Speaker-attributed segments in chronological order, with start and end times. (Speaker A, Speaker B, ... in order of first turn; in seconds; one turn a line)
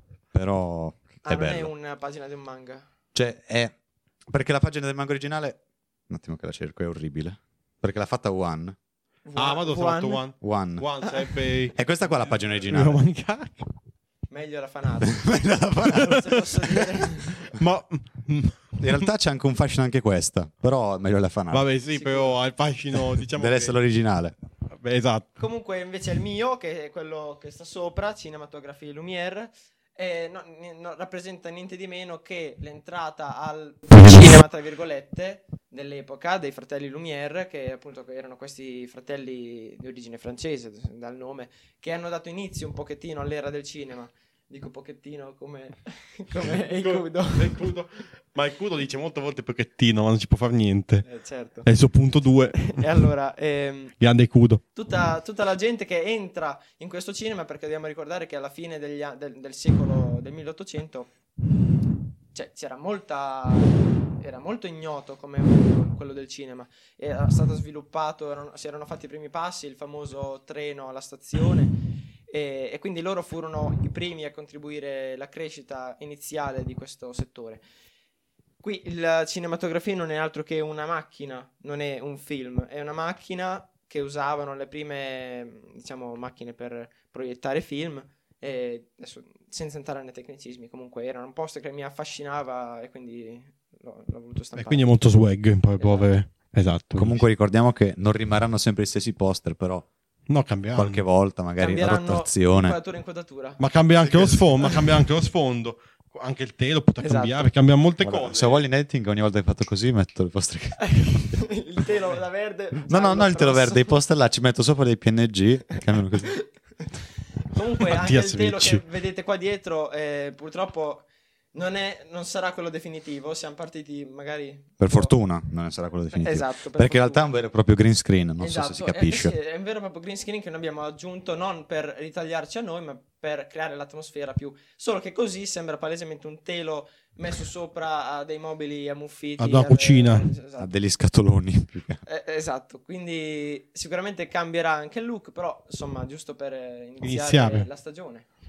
Speaker A: 0.3-1.7
Speaker B: 1.2-2.9
Speaker A: 3.1-3.7
Speaker A: 4.3-8.7
Speaker B: 9.2-10.2
Speaker C: 9.3-11.8
Speaker A: 10.4-10.9
Speaker A: 11.7-13.0
Speaker C: 12.6-13.7
Speaker B: 14.3-17.4
Speaker A: 15.0-16.2
Speaker C: 15.9-19.1
Speaker A: 18.8-21.7
Speaker C: 21.5-23.8
Speaker B: 21.9-22.4
Speaker A: 23.3-24.3
Speaker C: 24.7-25.3
Speaker B: 25.4-47.7
Speaker C: 46.6-51.0
Speaker B: 51.0-51.7
Speaker C: 51.6-53.0
Speaker B: 52.6-53.9
Speaker C: 54.0-54.6
Speaker B: 54.7-61.1
Speaker B: 62.3-71.8
Speaker B: 72.3-77.6
Speaker B: 78.6-94.9
Speaker C: 94.5-97.2
Speaker B: 95.8-96.1
Speaker A: 97.0-99.8
Speaker C: 100.3-101.0
Speaker A: 100.7-102.8
Speaker B: 101.6-103.6
Speaker C: 103.6-108.6
Speaker A: 104.0-104.5
Speaker B: 107.0-107.5
Speaker A: 108.0-111.2
Speaker B: 110.8-114.0
Speaker A: 112.8-116.4
Speaker B: 117.4-125.1
Speaker C: 117.9-118.8
Speaker A: 124.8-129.3
Speaker B: 126.1-127.3
Speaker B: 128.4-140.7
Speaker C: 139.4-140.3
Speaker A: 140.6-142.0
Speaker B: 142.0-148.2
Speaker C: 147.0-147.7